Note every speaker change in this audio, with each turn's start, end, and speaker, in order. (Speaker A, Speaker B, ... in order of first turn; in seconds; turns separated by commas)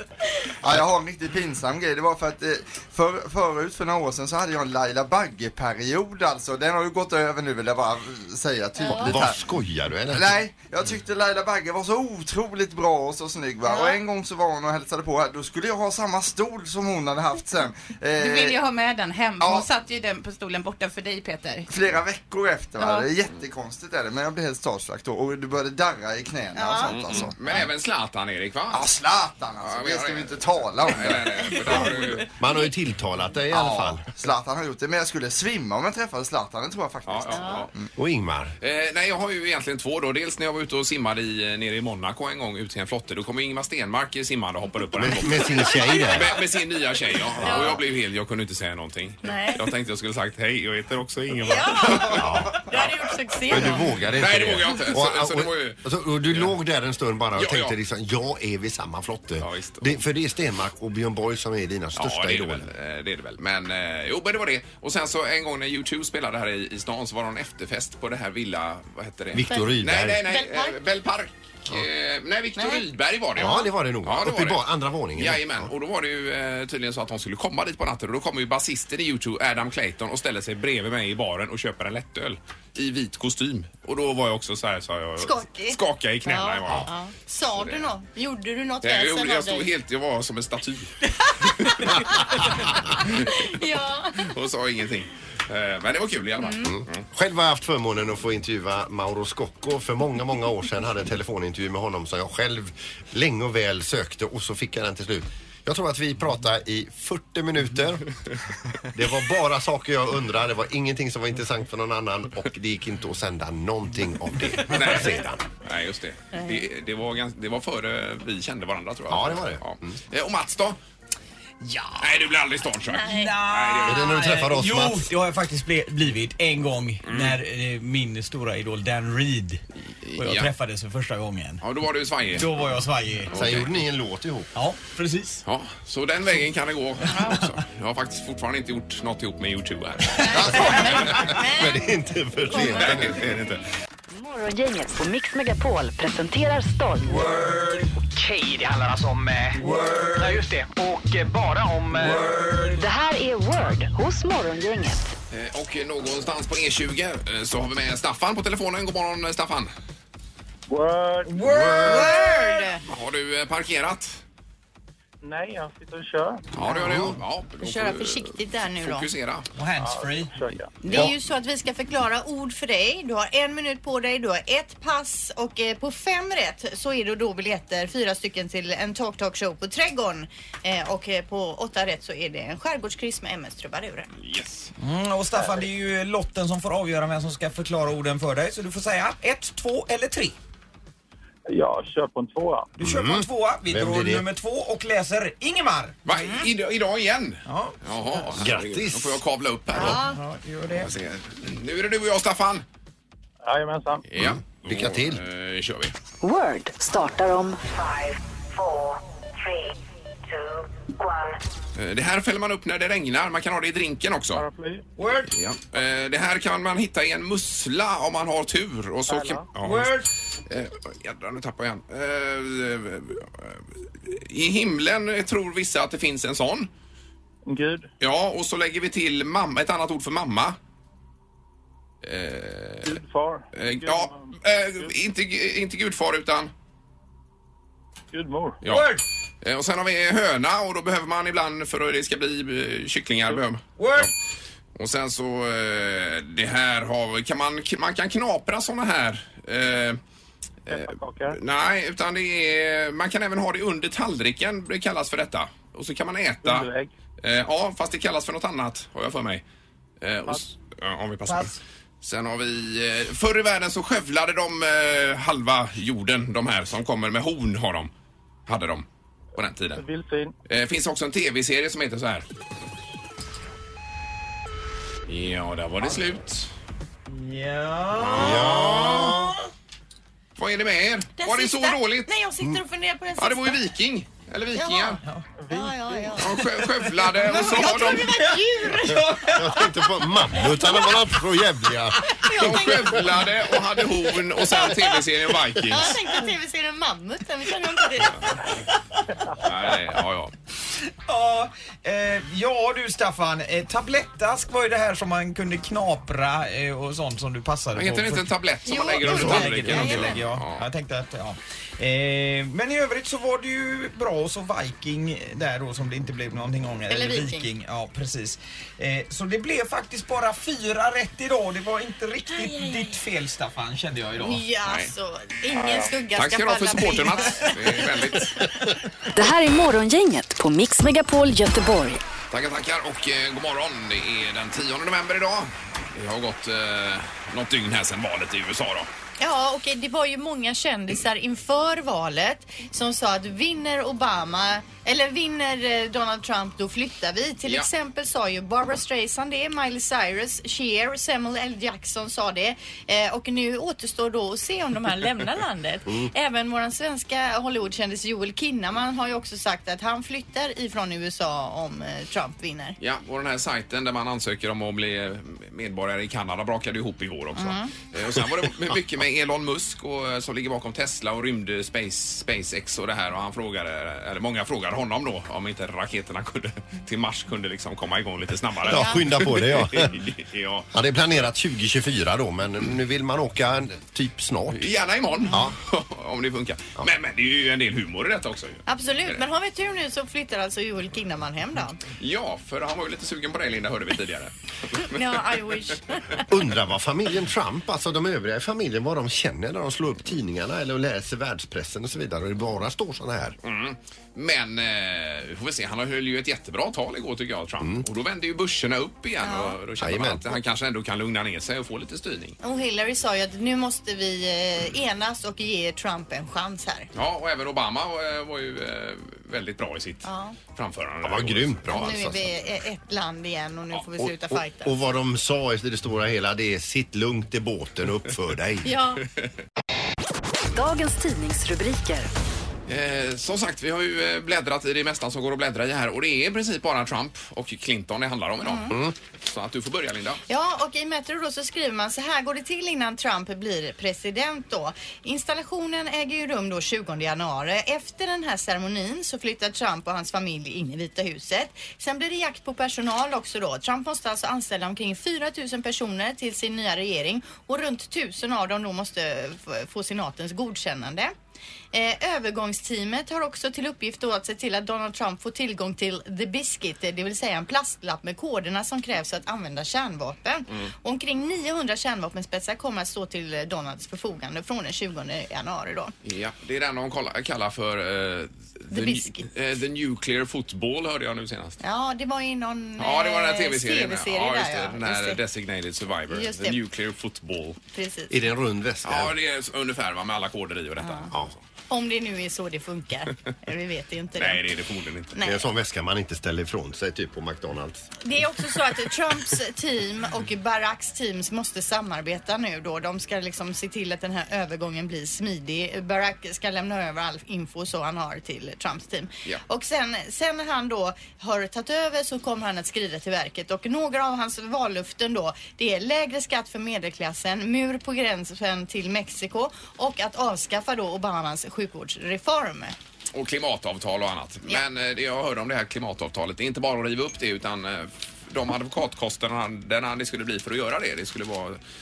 Speaker A: 0.6-9.4, Speaker B: 8.8-9.1, Speaker C: 9.0-10.3, Speaker A: 10.1-18.6, Speaker B: 13.7-14.0, Speaker D: 18.2-21.7, Speaker A: 19.4-19.7, Speaker A: 21.7-27.7, Speaker D: 22.8-23.1, Speaker B: 26.5-27.2, Speaker E: 26.9-29.0, Speaker A: 28.7-32.2, Speaker E: 29.6-32.3, Speaker C: 32.4-34.0, Speaker A: 33.5-37.9, Speaker E: 37.1-37.7, Speaker B: 37.3-37.7, Speaker C: 38.0-38.5, Speaker E: 38.6-52.3, Speaker C: 45.0-46.4, Speaker B: 45.6-46.2, Speaker B: 47.4-47.8, Speaker C: 47.4-47.8, Speaker B: 49.2-49.7, Speaker B: 51.4-53.9, Speaker A: 52.0-52.3, Speaker C: 52.1-52.6, Speaker C: 53.5-62.7, Speaker E: 54.1-56.5, Speaker E: 57.4-57.8, Speaker E: 59.4-60.0, Speaker E: 62.0-74.6, Speaker C: 69.3-70.2, Speaker B: 69.5-69.7, Speaker B: 70.2-70.8, Speaker B: 72.6-72.8, Speaker C: 73.4-75.7, Speaker B: 73.4-73.7, Speaker E: 75.2-86.9, Speaker B: 85.2-89.7, Speaker E: 87.5-87.9, Speaker E: 88.8-91.0, Speaker E: 91.6-93.3, Speaker B: 91.7-92.5, Speaker B: 93.0-94.3, Speaker E: 94.2-97.0, Speaker C: 96.6-108.1, Speaker C: 108.9-115.4, Speaker E: 114.7-120.8, Speaker C: 119.1-120.0, Speaker F: 121.6-122.1, Speaker E: 122.0-124.1, Speaker B: 122.9-123.4, Speaker F: 123.0-129.6, Speaker C: 123.8-125.1, Speaker E: 127.0-127.4, Speaker E: 130.0-130.5, Speaker F: 130.2-131.6, Speaker E: 131.6-132.5, Speaker F: 132.3-133.3, Speaker E: 133.3-133.7, Speaker C: 133.3-134.5, Speaker F: 134.6-135.4, Speaker E: 135.4-141.2, Speaker F: 137.1-137.4, Speaker B: 140.2-143.1, Speaker F: 140.3-140.6, Speaker C: 140.3-143.3, Speaker E: 142.5-143.6, Speaker G: 144.1-147.2, Speaker F: 147.1-147.9, Speaker H: 148.2-149.6, Speaker F: 149.5-150.4, Speaker H: 150.2-152.3, Speaker F: 152.0-152.8, Speaker G: 152.8-155.1, Speaker E: 155.3-159.7, Speaker I: 160.7-161.3, Speaker F: 161.3-162.7, Speaker B: 161.7-162.8, Speaker E: 162.8-164.2, Speaker I: 165.2-166.4, Speaker E: 166.6-169.5, Speaker B: 166.6-169.1, Speaker F: 169.6-171.1, Speaker I: 169.8-170.7, Speaker B: 170.8-184.1, Speaker E: 184.2-184.7, Speaker F: 184.8-190.3, Speaker I: 191.5-192.7, Speaker F: 192.8-196.0, Speaker C: 192.8-194.3, Speaker E: 196.1-200.0, Speaker B: 196.1-196.5, Speaker F: 197.5-198.3, Speaker C: 198.3-199.2, Speaker F: 199.7-200.9, Speaker B: 199.8-200.1, Speaker E: 200.7-202.6, Speaker I: 203.4-204.1, Speaker E: 204.1-205.9, Speaker C: 204.2-205.2, Speaker G: 206.2-208.9, Speaker G: 210.3-211.3, Speaker E: 211.8-214.4, Speaker I: 214.3-214.8, Speaker F: 215.0-215.3, Speaker E: 215.3-226.7, Speaker I: 219.1-219.5, Speaker F: 219.6-220.1, Speaker I: 227.5-227.9, Speaker E: 228.0-230.6, Speaker E: 232.0-233.0, Speaker I: 232.8-234.3, Speaker E: 233.5-236.5, Speaker I: 238.1-238.6, Speaker E: 238.6-244.1, Speaker F: 238.7-239.0, Speaker F: 243.8-244.1, Speaker E: 244.8-250.0, Speaker E: 250.7-259.4, Speaker I: 250.7-251.4, Speaker I: 256.4-256.9, Speaker E: 260.0-267.9, Speaker F: 261.3-261.6, Speaker E: 268.5-269.8, Speaker I: 269.8-270.3, Speaker E: 270.5-272.2, Speaker E: 275.1-276.5, Speaker F: 277.1-279.3, Speaker E: 278.0-279.2, Speaker C: 278.1-279.4, Speaker E: 280.4-282.1, Speaker B: 281.2-283.6, Speaker E: 283.2-285.0, Speaker B: 284.5-286.4, Speaker I: 285.4-286.2, Speaker E: 286.2-288.2, Speaker F: 287.0-289.7, Speaker B: 287.3-288.9, Speaker C: 289.2-293.0, Speaker B: 290.4-291.0, Speaker B: 292.2-293.3, Speaker E: 292.4-296.0, Speaker B: 294.4-295.0, Speaker B: 295.7-298.5, Speaker E: 299.4-300.3, Speaker F: 301.1-308.3, Speaker E: 307.8-310.6, Speaker B: 308.7-310.2, Speaker F: 309.0-324.4, Speaker B: 316.9-317.5, Speaker B: 322.3-323.0, Speaker B: 324.2-328.0, Speaker E: 324.7-324.9, Speaker E: 326.2-328.4, Speaker G: 329.1-332.0, Speaker E: 332.3-338.9, Speaker B: 339.2-362.8, Speaker E: 362.8-380.7, Speaker B: 367.4-367.7, Speaker C: 378.6-380.0, Speaker B: 378.7-379.0, Speaker C: 380.7-384.7, Speaker E: 384.5-389.2, Speaker C: 385.3-385.6, Speaker B: 388.7-391.8, Speaker E: 392.0-395.2, Speaker B: 394.9-396.3, Speaker C: 396.3-403.4, Speaker E: 403.4-412.4, Speaker B: 409.2-409.6, Speaker C: 409.8-410.2, Speaker B: 412.4-416.9, Speaker E: 416.9-422.0, Speaker B: 420.0-420.4, Speaker C: 421.0-422.3, Speaker B: 421.7-424.7, Speaker C: 424.0-428.7, Speaker B: 428.6-429.0, Speaker G: 430.5-432.1, Speaker E: 432.7-440.2, Speaker B: 438.4-438.7, Speaker C: 438.7-438.9, Speaker B: 440.3-461.1, Speaker B: 461.7-475.9, Speaker E: 476.0-481.6, Speaker B: 478.7-479.3, Speaker B: 481.6-485.2, Speaker E: 482.8-487.6, Speaker B: 486.1-486.6, Speaker B: 487.7-488.1, Speaker C: 488.1-489.1, Speaker E: 488.9-491.4, Speaker B: 490.8-491.1, Speaker B: 491.7-494.4, Speaker E: 494.2-495.1, Speaker B: 495.1-495.4, Speaker C: 495.2-497.9, Speaker B: 498.0-522.8, Speaker E: 523.1-531.6